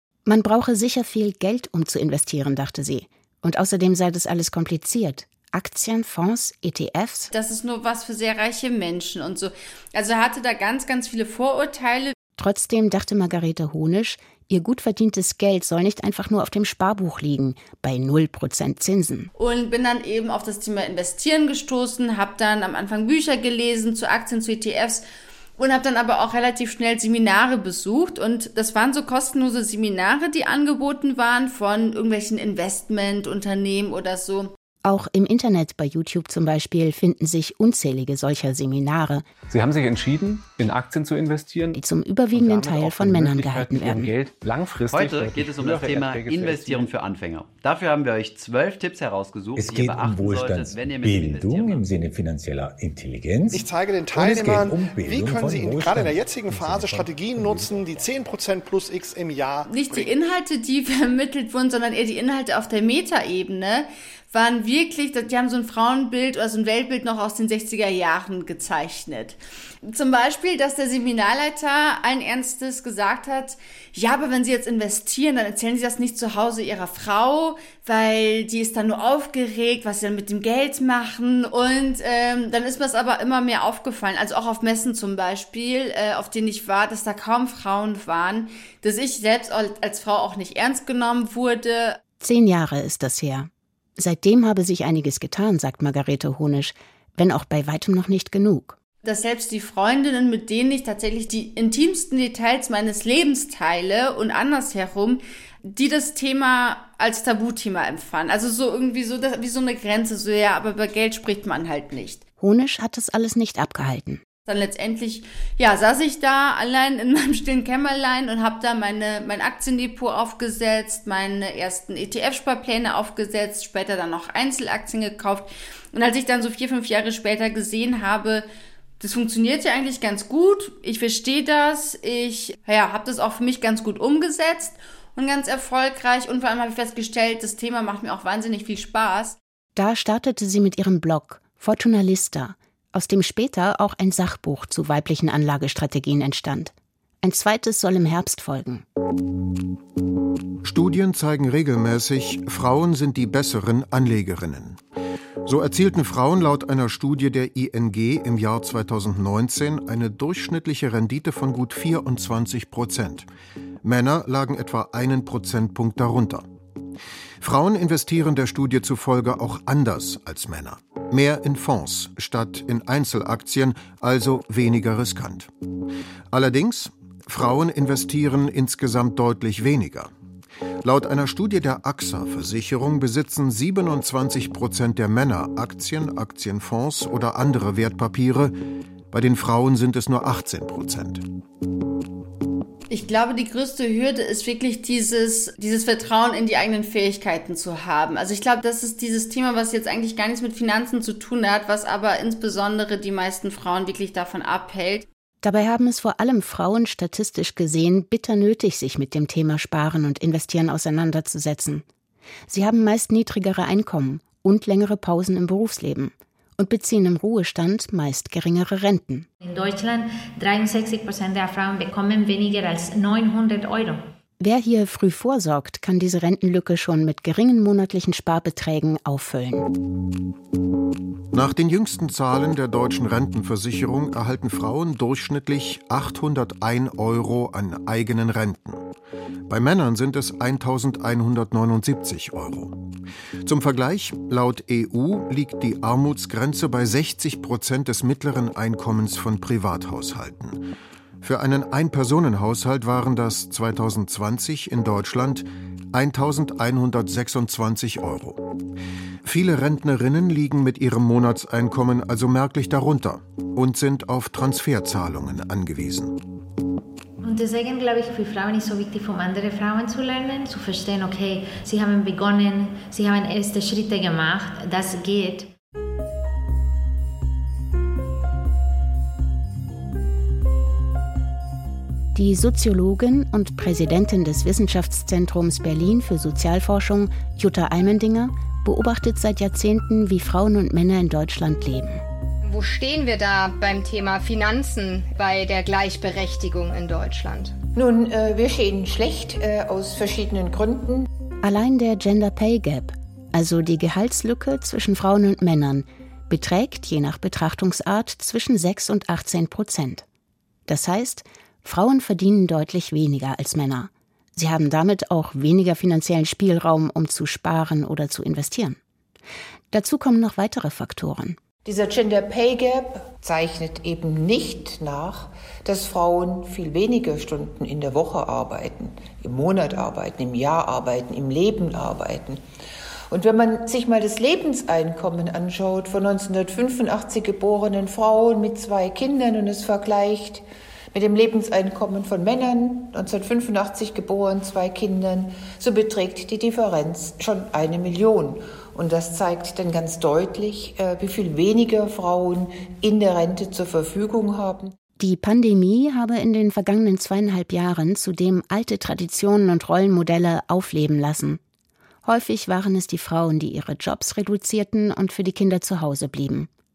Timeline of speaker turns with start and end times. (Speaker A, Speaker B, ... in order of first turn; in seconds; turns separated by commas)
Speaker A: 0.2-7.3, Speaker B: 7.3-12.1, Speaker A: 12.4-19.3, Speaker B: 19.3-25.0, Speaker B: 25.6-34.5, Speaker A: 34.8-39.3, Speaker C: 39.5-41.8, Speaker A: 41.7-44.1, Speaker C: 42.3-46.9, Speaker D: 44.9-51.9, Speaker E: 49.5-57.9, Speaker F: 53.5-59.7, Speaker B: 59.7-92.0, Speaker A: 92.2-98.8, Speaker B: 99.0-112.2, Speaker A: 112.4-114.2, Speaker B: 114.4-128.4, Speaker B: 129.0-139.4, Speaker A: 139.8-148.8, Speaker G: 150.6-154.8, Speaker G: 155.4-163.3, Speaker G: 163.8-166.5, Speaker G: 167.4-175.5, Speaker G: 176.3-180.1, Speaker G: 180.8-188.5, Speaker G: 189.1-191.2, Speaker B: 192.9-205.1, Speaker A: 205.4-211.8, Speaker A: 212.5-219.3, Speaker H: 219.4-224.0, Speaker A: 224.4-229.7, Speaker G: 231.3-238.9, Speaker G: 239.5-242.8, Speaker G: 243.4-250.6, Speaker G: 251.2-258.4, Speaker G: 259.2-266.1, Speaker H: 267.2-275.5, Speaker A: 282.1-292.0, Speaker I: 292.4-297.5, Speaker J: 297.7-301.1, Speaker A: 301.4-310.0, Speaker A: 310.7-318.8, Speaker A: 319.7-321.4, Speaker J: 321.6-332.4, Speaker J: 333.1-340.4, Speaker J: 340.9-354.7, Speaker A: 355.0-361.4, Speaker A: 362.0-366.5